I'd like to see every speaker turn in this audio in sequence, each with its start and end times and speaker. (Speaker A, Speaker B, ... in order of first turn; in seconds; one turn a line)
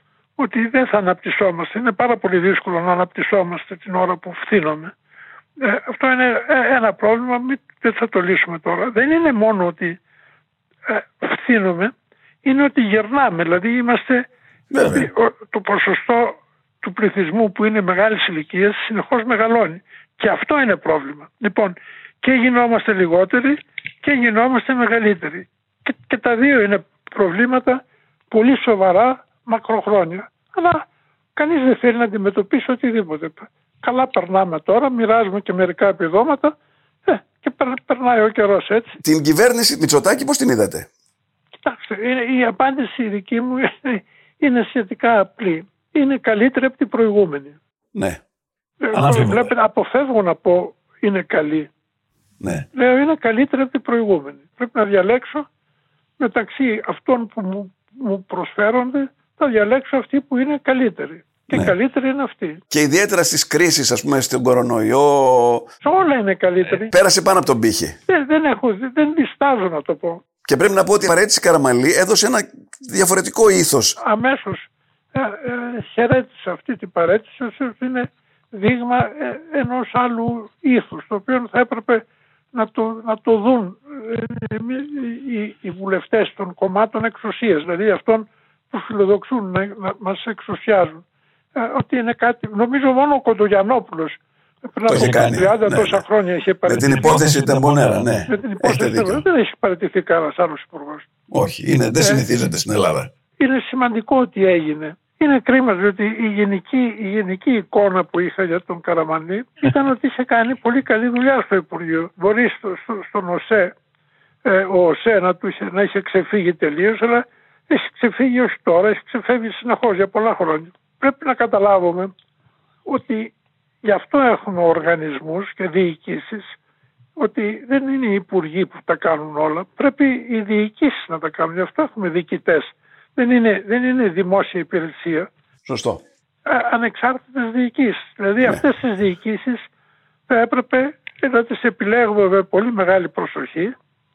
Speaker A: 0.4-4.9
Speaker A: 5.6-10.0
Speaker A: 10.9-11.9
Speaker A: 12.4-14.2
Speaker B: 14.7-15.1
Speaker A: 14.8-30.8
Speaker A: 31.4-36.5
Speaker A: 37.0-39.0
Speaker B: 39.0-40.9
Speaker A: 41.5-47.6
Speaker B: 47.9-48.2
Speaker A: 48.8-51.7
Speaker B: 48.9-49.5
Speaker B: 52.4-52.7
Speaker A: 52.7-55.5
Speaker A: 56.2-62.6
Speaker B: 62.7-65.7
Speaker A: 65.8-66.9
Speaker B: 66.8-68.0
Speaker A: 68.1-70.2
Speaker B: 70.4-74.0
Speaker A: 74.0-91.0
Speaker A: 91.5-97.3
Speaker B: 94.9-96.0
Speaker B: 96.7-99.2
Speaker A: 98.2-101.1
Speaker B: 101.3-103.1
Speaker A: 103.4-113.8
Speaker A: 114.4-122.1
Speaker A: 122.8-126.6
Speaker A: 127.2-135.3
Speaker B: 135.7-136.0
Speaker A: 136.4-139.7
Speaker A: 140.3-143.7